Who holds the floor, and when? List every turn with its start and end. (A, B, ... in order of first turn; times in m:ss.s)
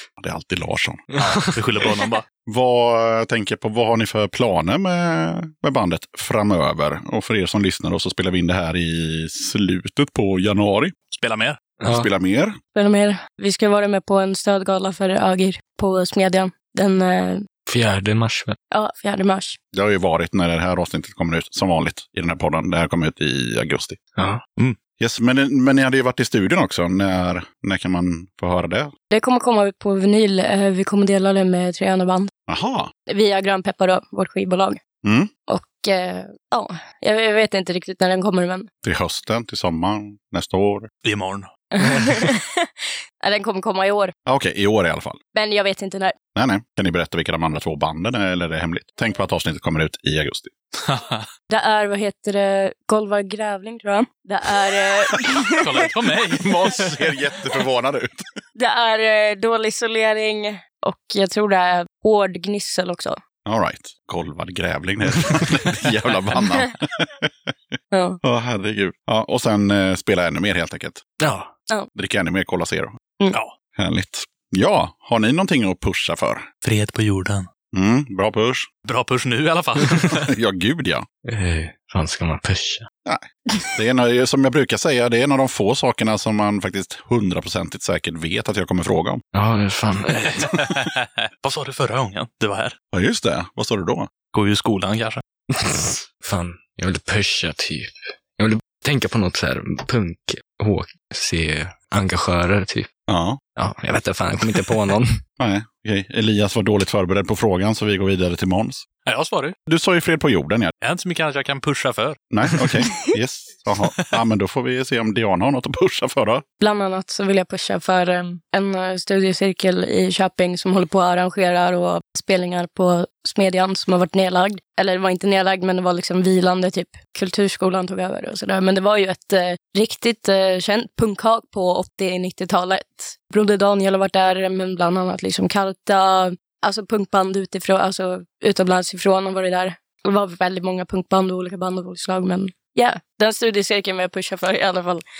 0:00.2-0:01.0 A
0:01.1-0:01.5 B
0:01.2-0:02.2 C
0:02.5-0:11.0 A
0:11.1-0:11.6 C
0:11.8-0:12.1 B
0:11.9-0:12.6 A
0:12.8-0:17.4 D
0:17.7-0:18.6 B
0:18.7-0:19.6 D
0:19.7-0:24.0 A
0:24.2-0:24.4 B
0:25.0-0:28.9 A
0:29.1-0:32.3 D
0:32.5-0:32.9 A
0:33.1-0:34.8 D
0:35.0-0:35.3 A
0:35.5-0:38.7 D
0:38.8-0:40.9 A
0:41.0-0:41.5 C
0:41.7-0:44.1 D
0:44.3-0:45.2 A
0:45.3-0:46.1 D
0:46.4-0:50.5 A
0:50.8-0:51.3 C
0:51.5-0:55.9 D
0:55.5-0:57.0 C
0:56.4-0:58.4 A
0:58.6-1:03.2 D
1:03.4-1:11.0 A
1:07.9-1:08.2 D
1:11.2-1:11.5 B
1:12.0-1:13.0 A
1:13.8-1:16.5 A
1:16.6-1:17.5 C
1:17.7-1:18.7 A
1:18.8-1:20.3 C
1:20.1-1:21.1 A
1:21.2-1:22.9 B
1:23.1-1:29.2 A
1:29.3-1:30.4 B
1:30.1-1:32.8 C
1:32.9-1:34.1 A
1:34.3-1:35.2 C
1:35.5-1:42.9 B
1:43.1-1:43.4 A
1:43.6-1:45.2 B
1:45.4-1:48.8 A
1:49.1-1:49.6 C
1:49.7-1:50.7 A
1:50.8-1:52.8 C
1:52.3-1:56.4 A
1:56.6-2:25.0 D